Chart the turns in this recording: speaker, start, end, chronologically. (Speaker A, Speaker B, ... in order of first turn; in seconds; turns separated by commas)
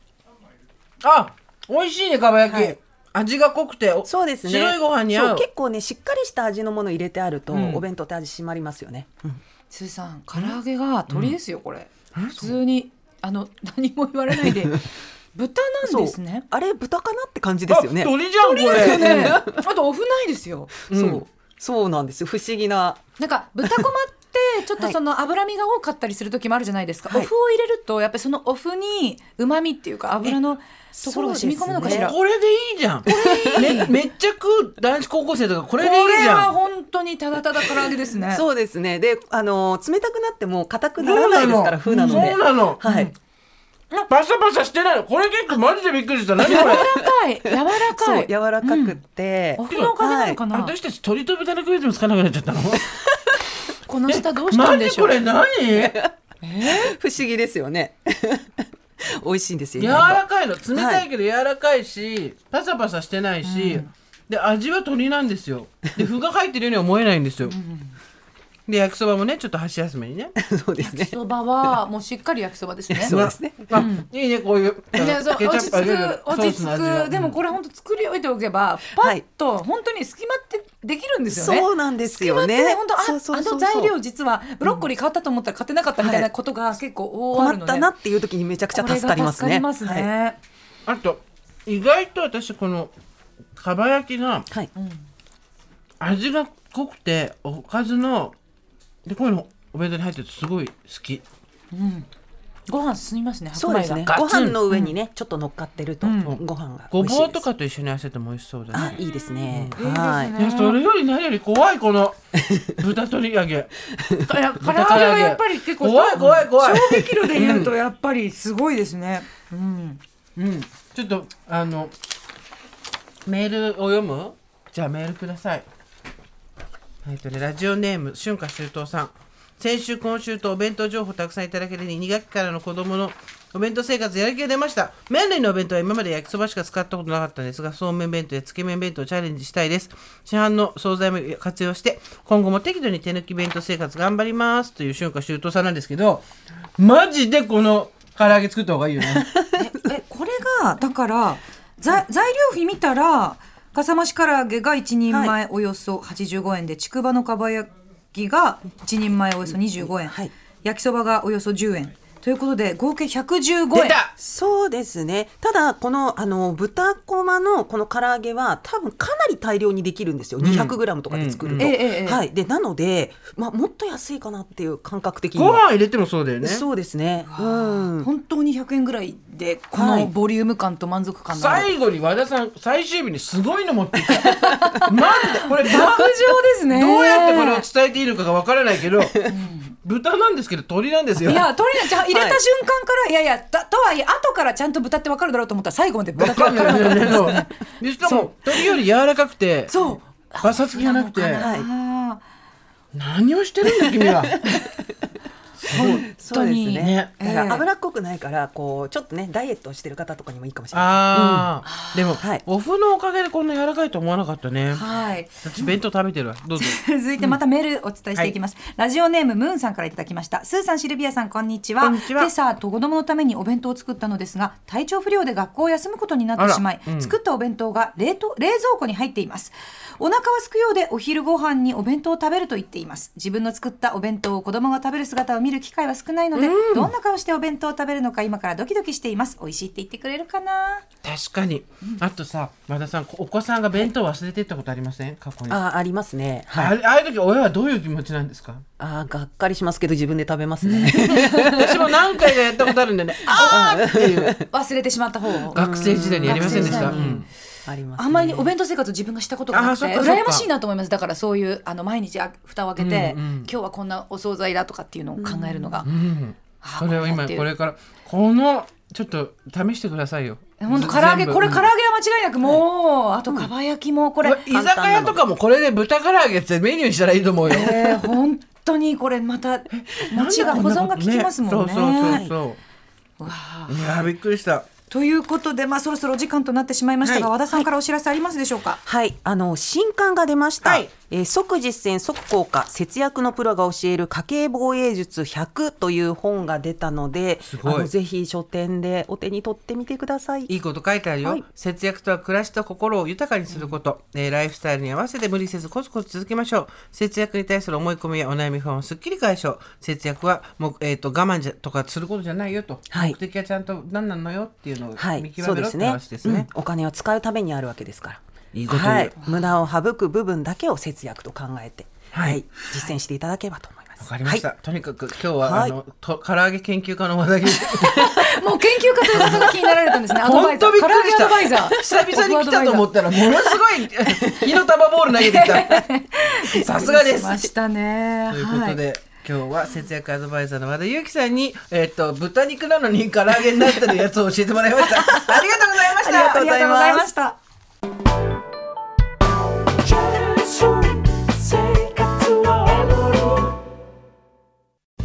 Speaker A: 1.0-5.5, Speaker B: 2.5-2.8, Speaker B: 4.0-9.4, Speaker A: 7.5-7.8, Speaker C: 9.7-16.5, Speaker A: 10.3-10.6, Speaker A: 11.1-11.3, Speaker A: 12.1-12.6, Speaker B: 14.4-14.7, Speaker B: 15.8-18.1, Speaker A: 17.7-19.4, Speaker C: 18.4-20.7, Speaker B: 18.7-19.6, Speaker B: 20.9-23.0, Speaker A: 20.9-21.2, Speaker C: 23.2-32.2, Speaker B: 30.9-32.1, Speaker A: 31.8-36.5, Speaker C: 33.0-34.0, Speaker B: 33.1-33.8, Speaker C: 35.8-38.5, Speaker B: 37.8-43.1, Speaker A: 41.0-42.8, Speaker C: 41.9-43.1, Speaker A: 44.1-46.9, Speaker C: 46.4-49.0, Speaker B: 46.4-50.4, Speaker C: 49.6-50.8, Speaker A: 49.7-53.0, Speaker C: 53.9-55.2, Speaker A: 54.1-56.0, Speaker B: 55.7-61.0, Speaker C: 56.4-57.0, Speaker A: 59.8-67.5, Speaker C: 63.4-63.9, Speaker C: 67.5-68.0, Speaker A: 68.7-70.3, Speaker B: 70.4-71.8, Speaker C: 70.8-73.2, Speaker B: 72.9-73.8, Speaker A: 73.1-77.4, Speaker C: 73.7-74.1, Speaker C: 74.9-87.9, Speaker B: 79.0-79.2, Speaker B: 81.3-84.0, Speaker B: 86.0-86.3, Speaker B: 87.3-90.1, Speaker C: 88.7-90.4, Speaker A: 90.9-92.9, Speaker A: 93.6-94.5, Speaker C: 94.8-95.1, Speaker A: 96.0-98.3, Speaker A: 99.0-101.2, Speaker C: 101.7-102.1, Speaker C: 102.7-104.1, Speaker B: 103.5-107.5, Speaker A: 104.1-104.6, Speaker C: 106.0-106.4, Speaker A: 106.2-109.8, Speaker B: 108.7-110.3, Speaker C: 109.8-110.8, Speaker A: 110.4-113.7, Speaker B: 113.9-114.3, Speaker C: 114.2-120.0, Speaker A: 114.6-117.7, Speaker A: 120.4-121.9, Speaker A: 123.3-125.7, Speaker A: 127.0-146.2, Speaker A: 146.8-149.3, Speaker B: 149.0-149.7, Speaker C: 149.6-164.0, Speaker B: 155.1-155.4, Speaker B: 159.5-160.3, Speaker A: 163.7-164.1, Speaker B: 164.2-175.6, Speaker A: 170.4-171.7, Speaker C: 171.6-172.2, Speaker A: 175.3-176.7, Speaker B: 176.4-178.1, Speaker C: 177.3-181.7, Speaker B: 179.7-180.1, Speaker A: 181.3-189.3, Speaker C: 184.1-187.7, Speaker B: 184.3-184.7, Speaker C: 189.2-189.8, Speaker A: 189.8-191.5, Speaker C: 191.2-198.7, Speaker B: 192.1-192.4, Speaker A: 196.2-199.8, Speaker C: 199.7-202.2, Speaker A: 200.4-201.5, Speaker B: 201.4-201.7, Speaker A: 202.9-204.4, Speaker B: 203.6-204.6, Speaker A: 205.6-206.0, Speaker C: 205.7-207.7, Speaker B: 205.7-211.5, Speaker A: 206.8-207.2, Speaker A: 210.7-214.8, Speaker C: 211.6-212.2, Speaker C: 214.7-215.8, Speaker A: 215.4-217.4, Speaker C: 216.6-240.8, Speaker A: 221.8-222.3, Speaker A: 226.4-227.1, Speaker A: 236.4-236.9, Speaker A: 241.0-245.6, Speaker B: 245.5-246.8, Speaker A: 246.5-248.6, Speaker B: 248.8-252.6, Speaker A: 250.6-254.3, Speaker C: 251.1-251.7, Speaker C: 253.3-253.9, Speaker B: 253.3-254.5, Speaker C: 254.5-255.6, Speaker B: 255.4-258.5, Speaker A: 255.5-257.3, Speaker C: 256.2-257.2, Speaker C: 258.0-265.9, Speaker A: 259.5-260.5, Speaker A: 262.8-263.5, Speaker B: 265.2-265.9, Speaker A: 265.8-271.7, Speaker C: 266.6-267.5, Speaker C: 270.6-274.4, Speaker A: 274.2-278.1, Speaker B: 274.5-275.2, Speaker C: 277.5-282.3, Speaker A: 279.7-282.6, Speaker B: 282.0-282.3, Speaker C: 283.2-284.1, Speaker A: 283.7-284.7, Speaker C: 284.9-288.8, Speaker B: 287.1-287.6, Speaker B: 288.9-300.5, Speaker A: 290.6-290.9, Speaker A: 297.4-297.9, Speaker A: 300.5-316.5, Speaker B: 312.9-313.2, Speaker B: 315.0-324.5, Speaker A: 318.5-319.1, Speaker A: 322.1-322.4, Speaker C: 322.7-322.9, Speaker A: 324.0-328.4, Speaker B: 325.4-325.8, Speaker C: 327.8-332.9, Speaker A: 329.1-329.6, Speaker A: 330.2-335.8, Speaker B: 333.3-334.6, Speaker C: 335.2-338.8, Speaker A: 336.5-337.5, Speaker A: 338.3-346.2, Speaker B: 345.3-347.1, Speaker C: 346.0-347.4